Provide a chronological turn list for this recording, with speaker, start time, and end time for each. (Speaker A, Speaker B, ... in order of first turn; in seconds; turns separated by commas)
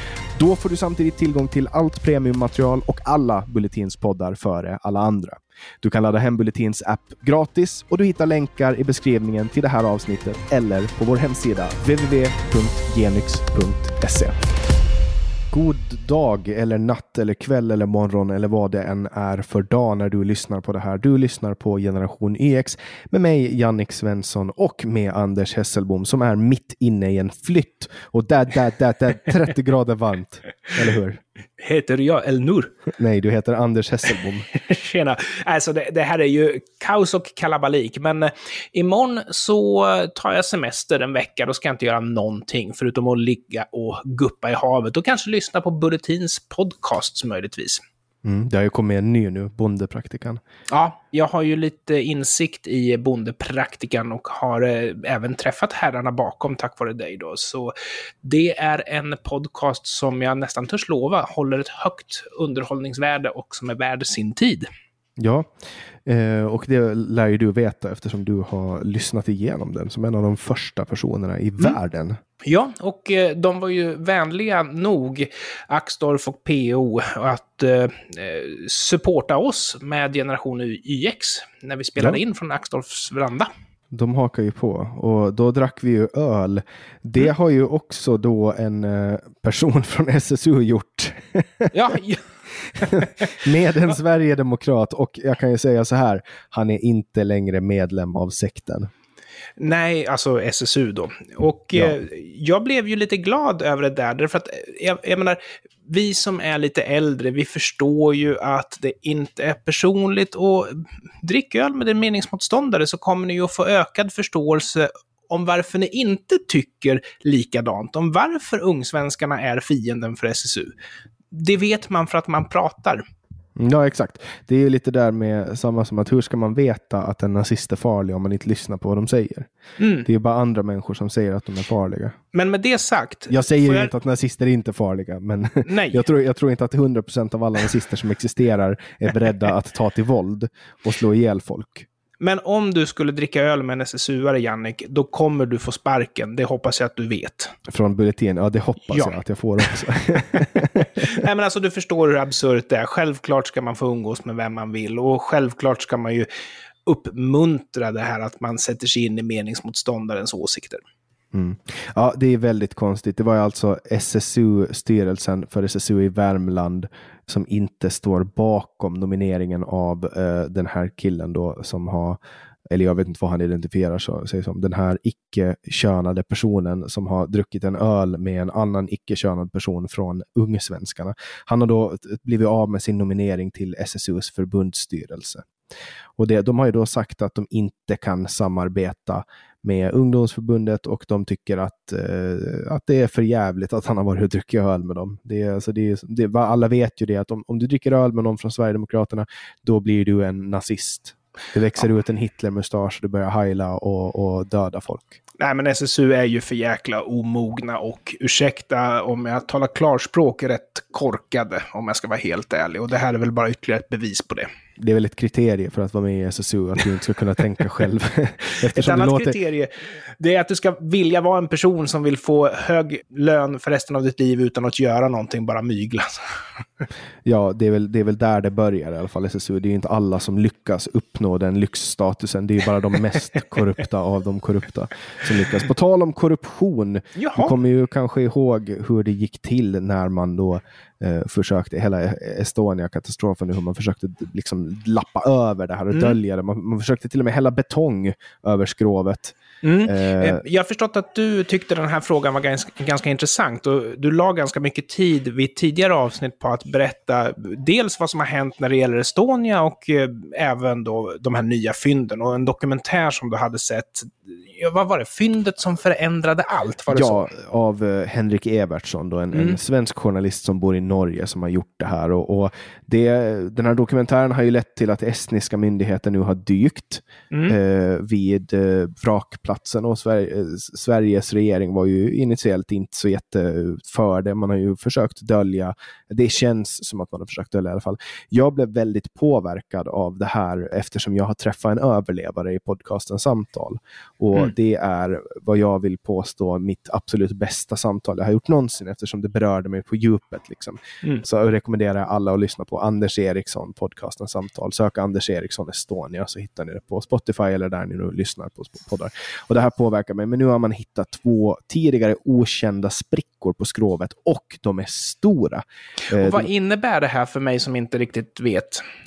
Speaker A: 0.4-14.4, Speaker A: 15.5-31.2, Speaker B: 31.6-32.8, Speaker A: 33.0-34.5, Speaker B: 34.6-47.8, Speaker A: 48.2-50.4, Speaker B: 50.7-64.7, Speaker A: 65.2-65.5, Speaker A: 66.0-72.2, Speaker B: 72.5-83.5, Speaker A: 83.9-91.7, Speaker B: 91.7-92.2, Speaker B: 92.8-93.3, Speaker A: 93.0-98.9, Speaker B: 99.6-120.7, Speaker B: 121.3-123.0, Speaker A: 123.6-129.5, Speaker B: 129.8-130.1, Speaker A: 130.1-132.2, Speaker B: 132.3-133.9, Speaker A: 133.3-141.9, Speaker B: 135.7-136.1, Speaker B: 142.2-147.5, Speaker A: 147.7-151.1, Speaker B: 148.9-149.8, Speaker B: 151.0-156.3, Speaker B: 156.9-160.8, Speaker A: 161.3-172.2, Speaker A: 172.7-185.5, Speaker A: 186.2-205.2, Speaker B: 205.4-214.5, Speaker A: 214.8-219.4, Speaker B: 218.7-226.2, Speaker A: 227.2-250.4, Speaker B: 237.2-237.6, Speaker B: 245.9-246.2, Speaker B: 249.6-267.3, Speaker A: 266.9-316.5, Speaker B: 269.3-269.6, Speaker B: 277.3-277.6, Speaker B: 316.1-318.8